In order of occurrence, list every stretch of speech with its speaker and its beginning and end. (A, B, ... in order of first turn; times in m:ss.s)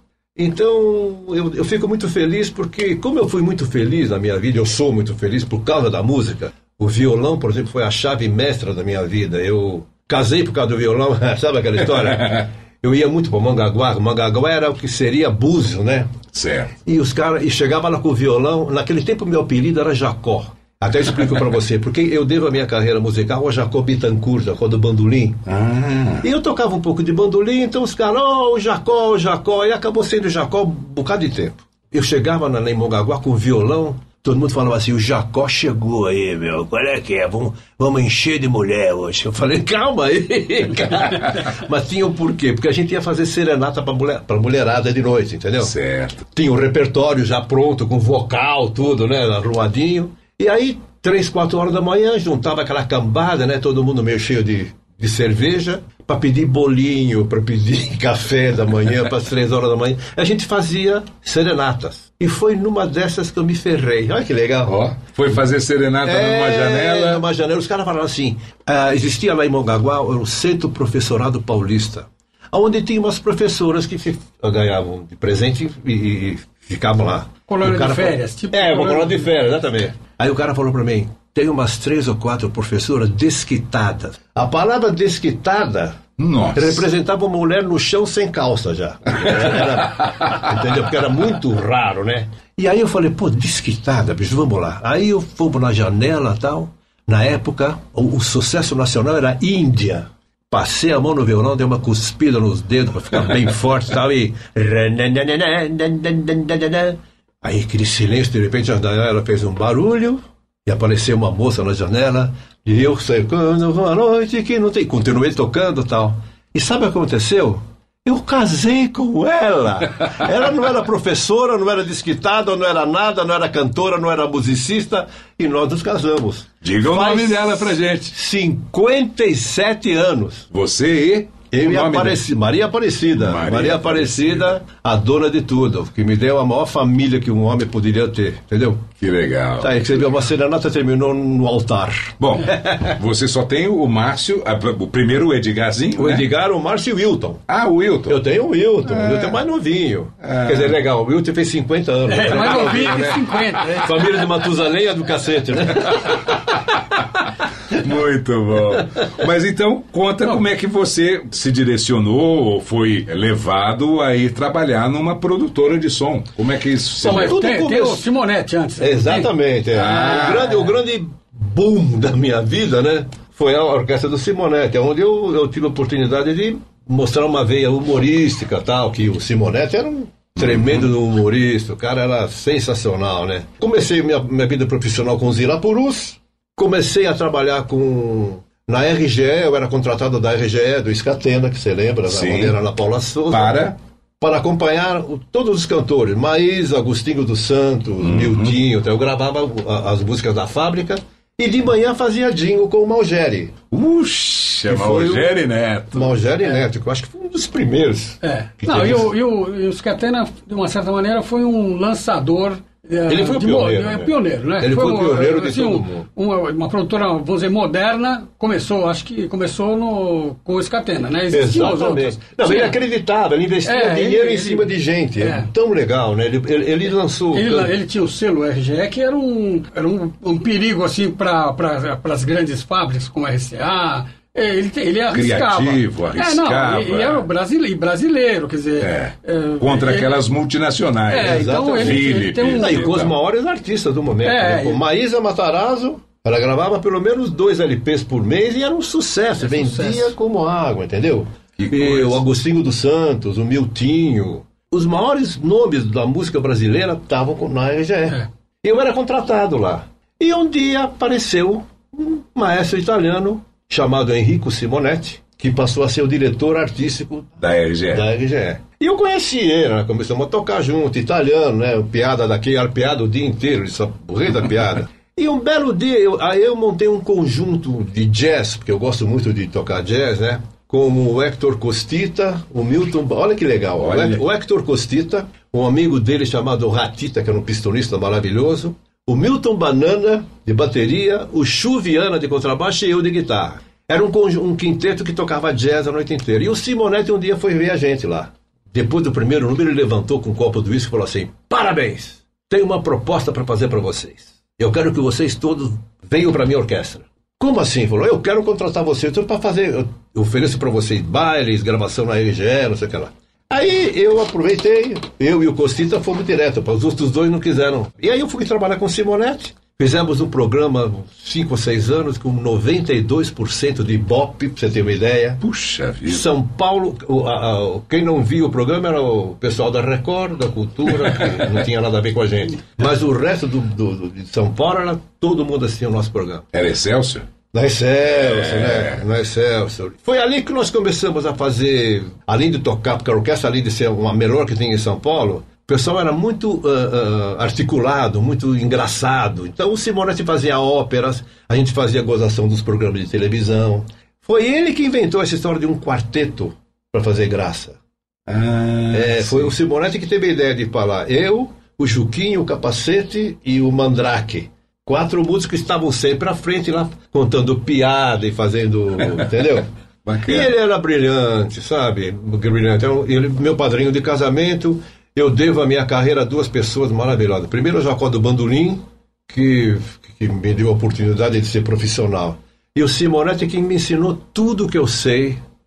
0:00.4-0:16.2 A
0:16.3-0:16.7 B
0:16.8-0:25.4 A
0:25.5-0:26.2 B
0:26.2-0:45.7 A
0:45.6-0:46.3 B
0:46.3-1:04.8 A
1:04.7-1:07.2 B
1:06.0-1:26.0 A
1:17.5-1:19.3 C
1:26.2-1:26.9 B
1:26.6-2:10.5 A
1:29.2-1:29.8 B
2:06.6-2:08.2 B
2:10.5-2:12.2 B
2:11.5-2:18.9 A
2:13.2-2:14.5 B
2:19.0-2:19.7 B
2:19.6-2:22.2 A
2:22.2-2:26.3 B
2:26.0-2:27.4 A
2:27.5-2:28.2 B
2:28.1-2:36.2 A
2:28.8-2:29.4 B
2:30.2-2:30.8 B
2:32.1-2:33.9 C
2:32.3-2:33.2 B
2:37.8-2:47.4 B
2:47.0-2:48.0 A
2:47.0-2:49.3 C
2:48.8-3:13.7 A
2:49.7-2:50.6 B
2:49.9-2:50.7 C
3:00.4-3:00.9 B
3:12.1-3:12.6 B
3:13.3-3:13.8 B
3:14.2-3:23.5 A
3:18.0-3:18.6 B
3:23.7-3:26.2 B
3:24.7-3:25.4 A
3:25.9-3:29.1 A
3:28.2-3:42.8 C
3:33.1-3:36.1 A
3:41.3-3:47.7 A
3:43.7-3:44.7 C
3:45.2-3:45.5 C
3:47.3-4:00.1 C
3:55.1-3:57.2 B
3:58.8-4:03.2 B
4:01.1-4:03.0 C
4:01.2-4:27.3 A
4:04.2-4:04.8 C
4:09.4-4:10.1 C
4:11.6-4:12.2 B
4:27.4-4:28.1 B
4:27.9-5:25.4 A
4:43.8-4:44.2 B
5:25.4-5:26.3 B
5:26.1-5:36.5 A
5:36.5-5:37.3 B
5:37.5-5:57.8 A
5:38.0-5:39.0 B
5:58.3-5:59.5 B
5:58.9-6:09.7 A
6:10.1-6:10.5 B
6:10.3-6:25.4 A